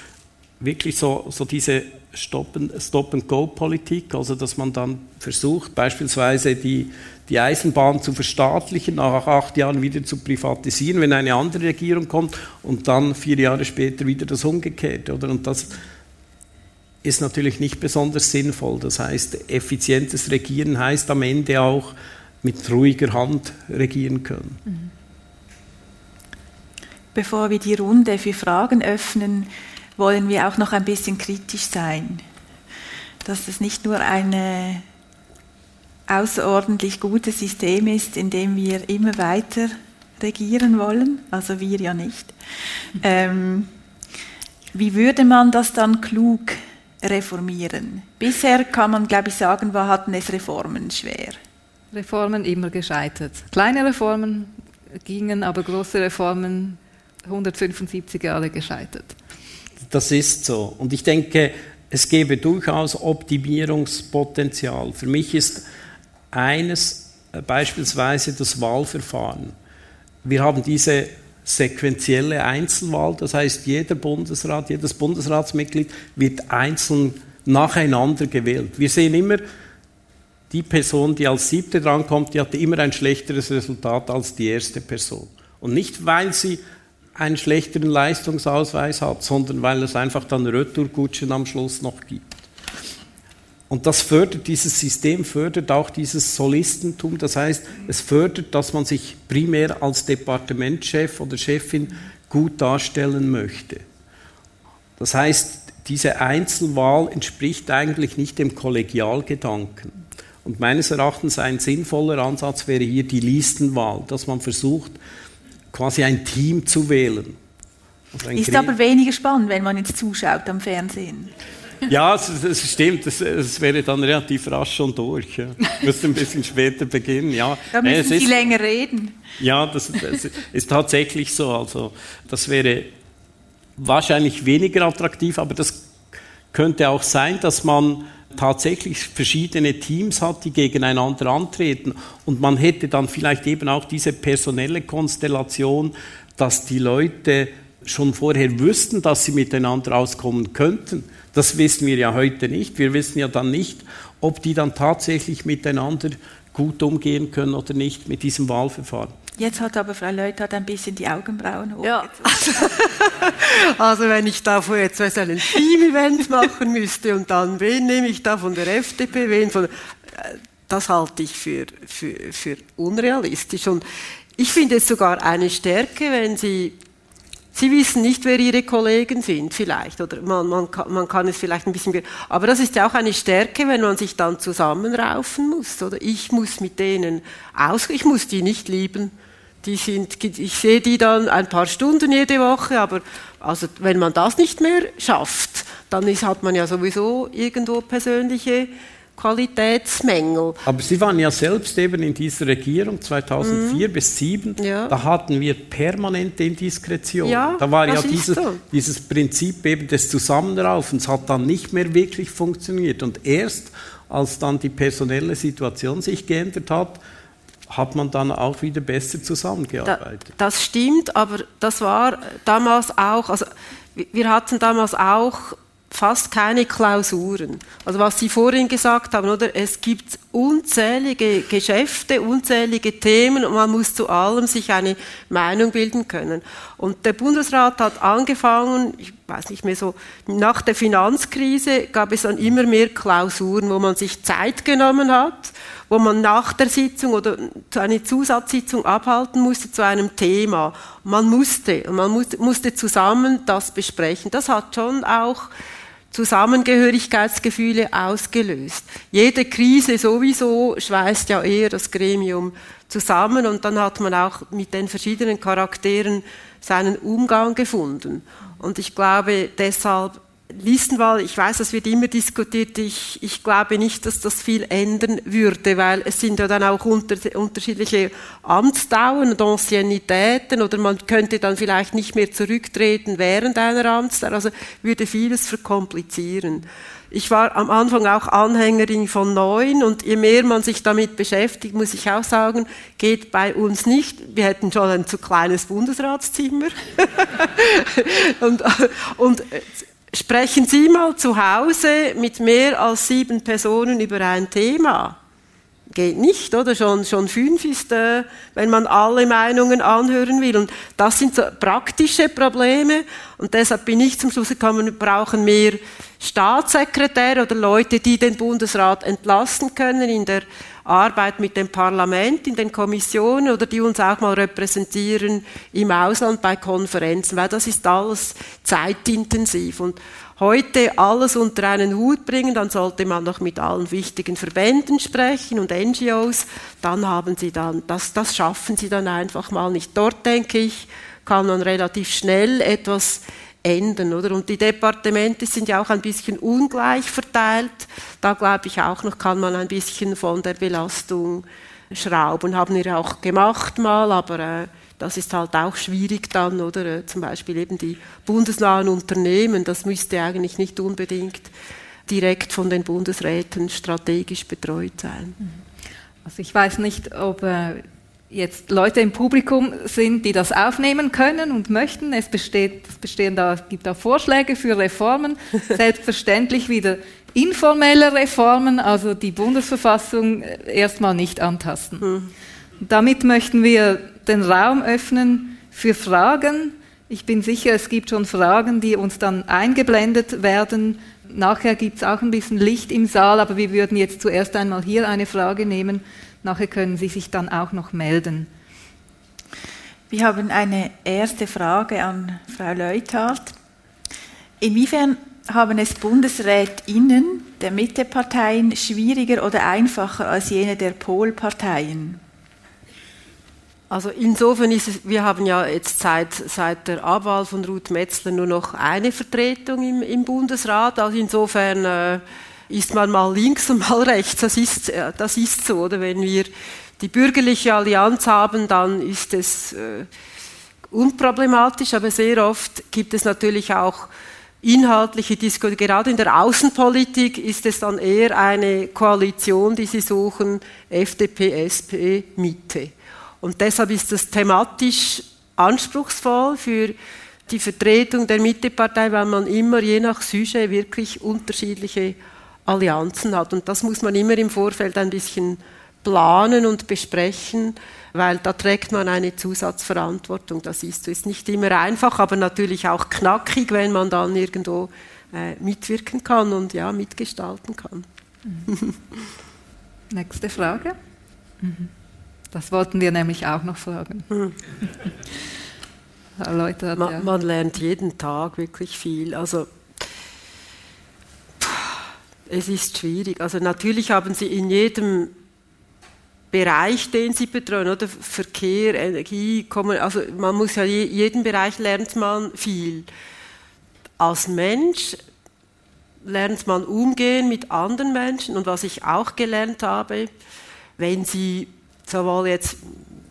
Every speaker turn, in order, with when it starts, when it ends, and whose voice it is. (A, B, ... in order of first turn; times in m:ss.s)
0:00.6-0:15.8 A
0:17.0-0:24.6 A
0:27.1-0:32.2 B
0:33.2-0:34.8 B
0:36.1-0:42.3 B
0:43.0-0:43.7 B
0:44.7-0:51.4 B
0:51.9-0:59.2 C
0:59.9-1:05.6 A
1:06.3-1:09.5 A
1:10.2-1:19.4 A
1:20.5-1:26.6 A
1:27.2-1:32.4 A
1:33.7-1:43.8 A
1:45.0-1:49.9 A
1:50.4-1:55.0 A
1:55.7-1:57.4 A
1:58.1-1:58.7 A
1:58.4-2:01.3 B
2:01.9-2:08.4 A
2:07.7-2:09.2 B
2:09.4-2:12.9 A
2:13.8-2:15.8 A
2:16.5-2:39.1 A
2:39.4-2:42.4 B
2:41.8-2:53.8 D
2:54.4-2:56.8 D
2:57.5-3:20.6 D
3:20.6-3:37.0 A
3:23.4-3:23.8 D
3:24.6-3:25.0 D
3:27.2-3:28.6 D
3:37.7-3:40.3 A
3:39.8-4:15.5 D
4:16.1-5:05.2 D
5:05.9-6:01.5 D
6:02.1-6:05.4 D
6:06.2-6:22.1 C
6:22.0-6:22.3 D
6:22.8-6:38.5 C
6:40.1-6:43.6 B
6:44.6-6:52.2 B
6:53.9-7:10.1 D
7:10.9-7:27.0 D
7:27.5-7:48.1 D
7:48.7-7:49.0 D
7:50.1-7:51.0 C
7:51.6-7:51.9 C
7:52.5-7:54.3 C
7:56.4-7:57.3 C
7:57.0-7:59.7 D
8:01.6-8:05.3 D
8:06.5-8:13.1 D
8:14.2-8:15.2 D
8:16.2-8:20.3 D
8:21.0-8:23.0 D